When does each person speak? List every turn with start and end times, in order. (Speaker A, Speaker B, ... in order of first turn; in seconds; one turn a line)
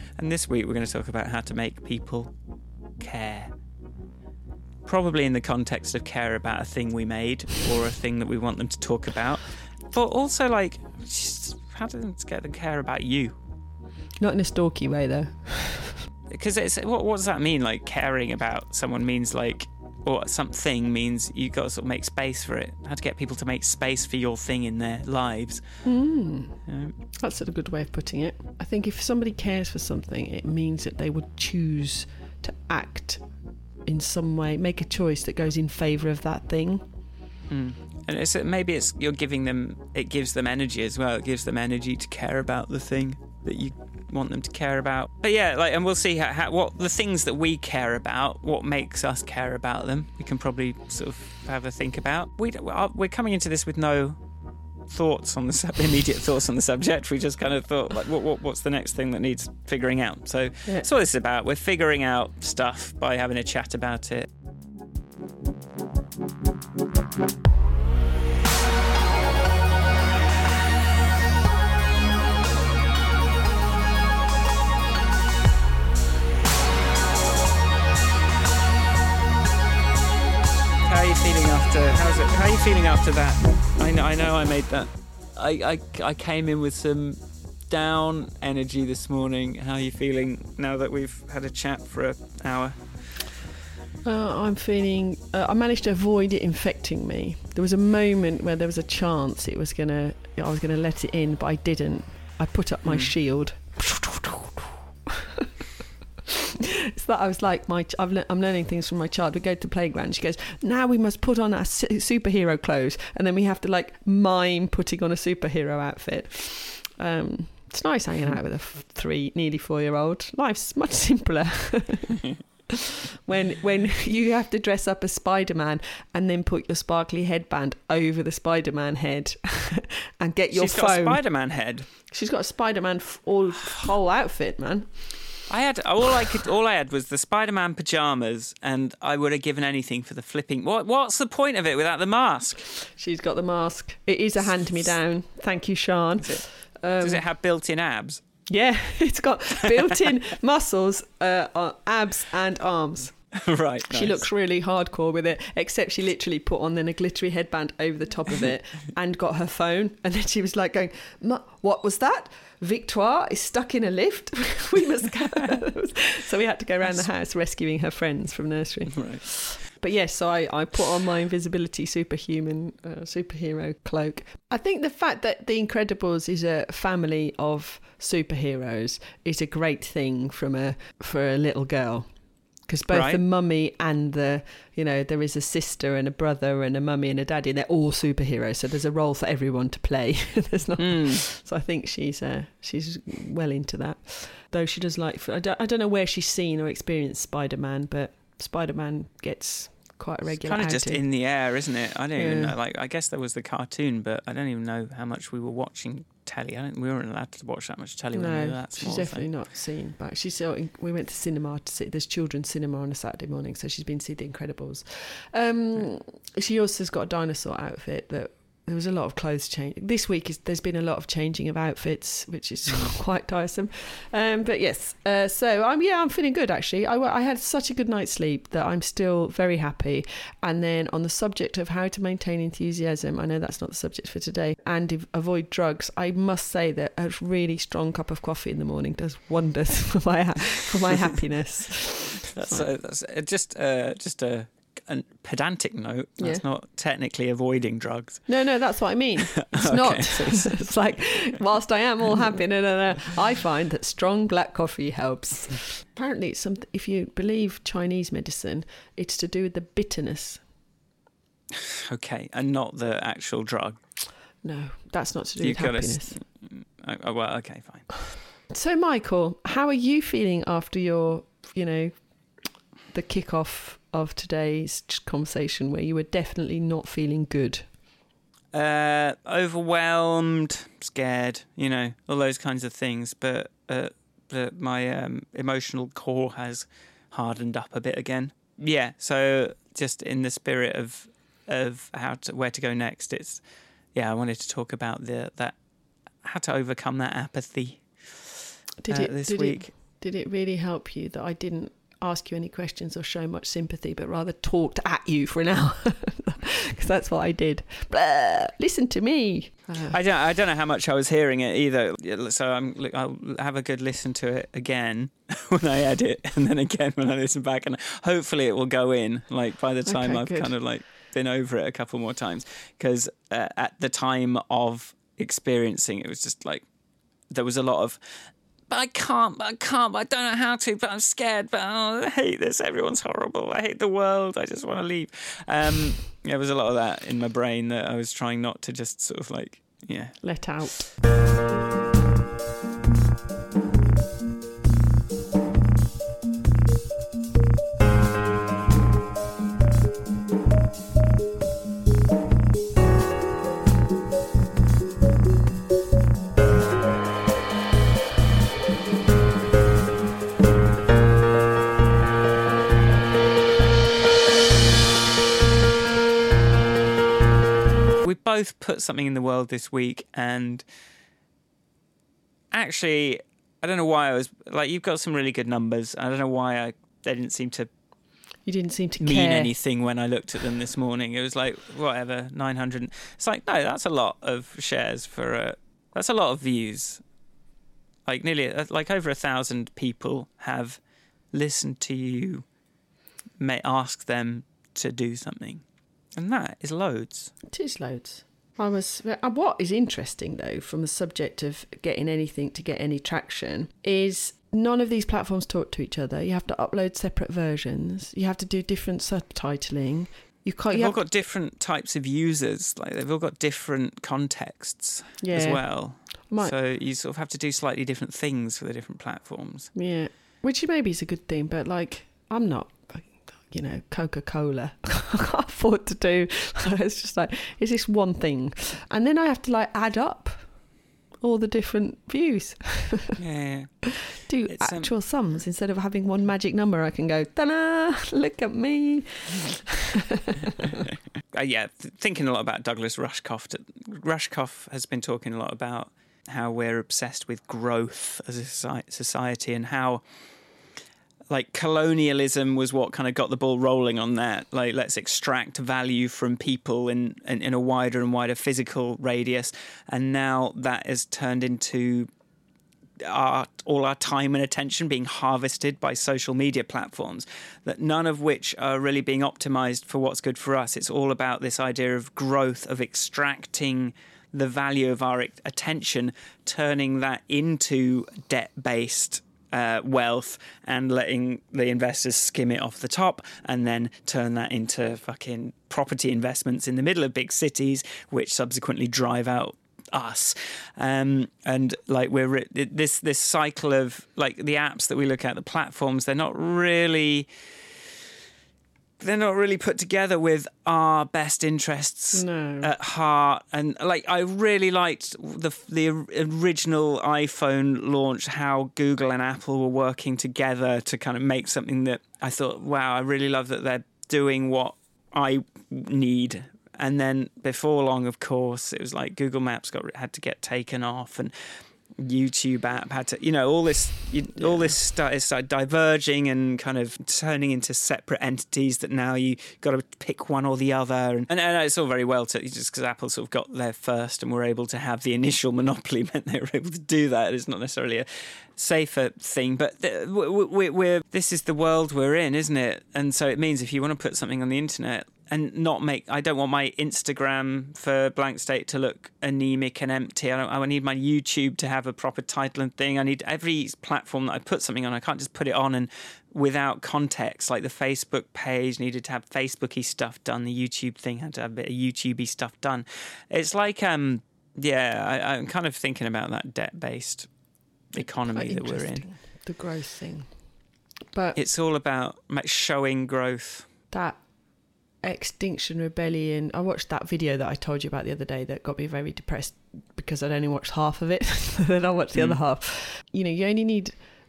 Speaker A: 0.2-2.3
Speaker A: 3.0-3.5
Speaker A: 4.8-13.4
Speaker B: 14.2-16.1
Speaker A: 16.3-25.6
Speaker B: 25.8-26.6
Speaker A: 26.7-26.9
Speaker B: 27.1-33.2
Speaker B: 33.9-36.8
Speaker A: 37.5-54.2
Speaker A: 54.9-64.3
Speaker A: 80.8-93.2
Speaker B: 94.0-105.5
Speaker A: 102.8-103.1
Speaker B: 106.6-122.3
Speaker B: 122.9-131.2
Speaker A: 130.5-131.9
Speaker B: 132.1-135.4
Speaker A: 135.5-142.7
Speaker B: 142.9-147.2
Speaker A: 147.0-148.2
Speaker B: 148.5-153.2
Speaker A: 153.3-154.2
Speaker B: 153.9-182.1
Speaker A: 168.9-169.2
Speaker B: 182.7-201.0
Speaker A: 182.9-183.2
Speaker A: 190.8-191.2
Speaker A: 200.4-209.3
Speaker B: 202.2-202.5
Speaker B: 208.1-242.6
Speaker A: 242.3-248.3
Speaker B: 246.2-246.4
Speaker B: 248.3-260.4
Speaker A: 249.3-250.7
Speaker A: 261.5-263.8
Speaker B: 264.4-266.2
Speaker A: 265.4-267.9
Speaker B: 268.5-272.0
Speaker B: 272.9-277.7
Speaker A: 278.5-293.4
Speaker A: 293.9-295.6
Speaker A: 296.2-299.7
Speaker B: 298.8-309.9
Speaker A: 309.9-326.6
Speaker B: 319.9-320.5
Speaker A: 327.3-328.0
Speaker A: 328.7-340.1
Speaker B: 340.2-340.9
Speaker A: 368.0-370.6
Speaker A: 372.5-377.7
Speaker B: 378.4-379.5
Speaker A: 379.0-387.0
Speaker A: 388.1-390.8
Speaker A: 391.3-392.4
Speaker A: 393.4-395.6
Speaker A: 396.1-397.3
Speaker B: 397.5-411.0
Speaker A: 410.7-419.7
Speaker B: 415.2-416.5
Speaker B: 419.7-430.5
Speaker B: 431.2-433.2
Speaker A: 433.2-433.9
Speaker B: 434.0-440.8
Speaker A: 434.4-434.9
Speaker A: 440.7-450.0
Speaker A: 451.3-462.1
Speaker A: 463.0-497.3
Speaker A: 499.0-521.3
Speaker B: 502.1-502.7
Speaker A: 522.0-567.3
Speaker B: 524.3-524.7
Speaker A: 567.9-569.0
Speaker B: 568.3-570.3
Speaker B: 571.1-571.4
Speaker A: 571.3-573.7
Speaker B: 573.9-574.2
Speaker B: 575.0-584.0
Speaker A: 582.1-582.4